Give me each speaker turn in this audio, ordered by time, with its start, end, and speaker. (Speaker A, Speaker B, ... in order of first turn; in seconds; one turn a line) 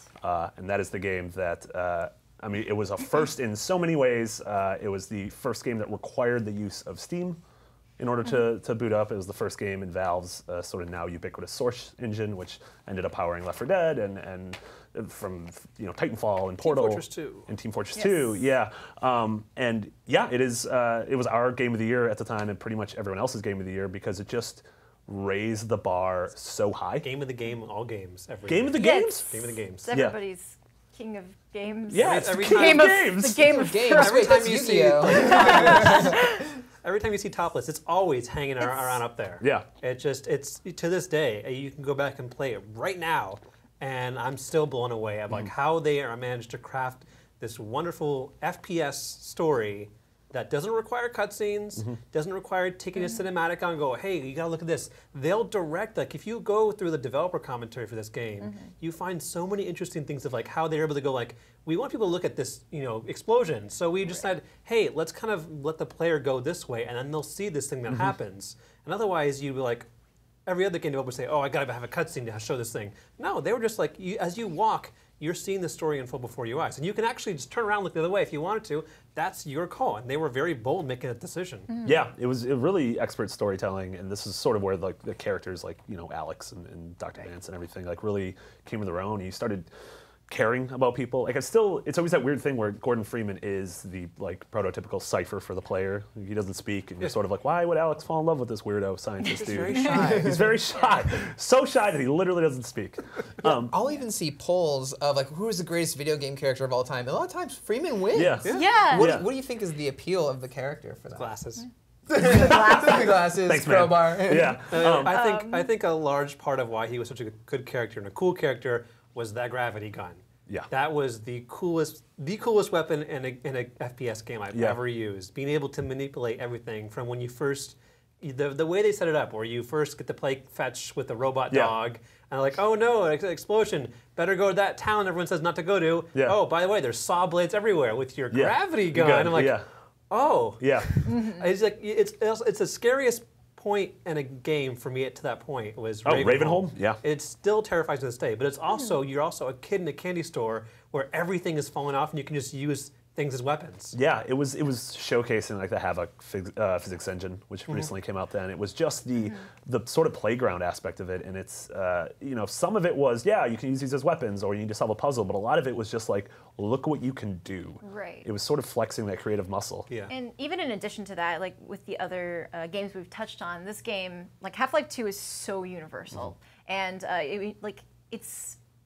Speaker A: 0.2-7.4
Speaker A: 8.0-27.1
Speaker B: 16.6-17.5
Speaker C: 17.9-18.4
Speaker B: 27.0-29.9
Speaker A: 28.5-29.3
Speaker C: 28.8-34.4
Speaker A: 29.9-30.2
Speaker A: 31.9-33.6
Speaker B: 32.0-32.9
Speaker D: 33.4-36.0
Speaker B: 33.9-69.9
Speaker C: 35.0-36.4
Speaker C: 38.6-39.0
Speaker A: 39.4-39.7
Speaker B: 70.5-81.7
Speaker C: 81.7-82.0
Speaker A: 81.8-89.7
Speaker A: 90.3-103.8
Speaker D: 99.4-100.6
Speaker B: 99.6-100.2
Speaker D: 103.4-111.3
Speaker A: 108.1-109.3
Speaker B: 108.4-108.8
Speaker C: 108.5-109.2
Speaker B: 111.1-111.7
Speaker D: 112.1-114.6
Speaker C: 112.3-112.9
Speaker A: 112.4-115.2
Speaker B: 114.6-139.6
Speaker C: 115.1-115.7
Speaker A: 124.5-124.8
Speaker A: 131.5-131.8
Speaker A: 138.3-139.7
Speaker B: 140.1-153.9
Speaker A: 140.6-141.0
Speaker C: 141.1-141.4
Speaker A: 146.1-147.0
Speaker A: 153.9-169.9
Speaker C: 159.2-159.5
Speaker C: 167.8-168.3
Speaker C: 170.1-178.6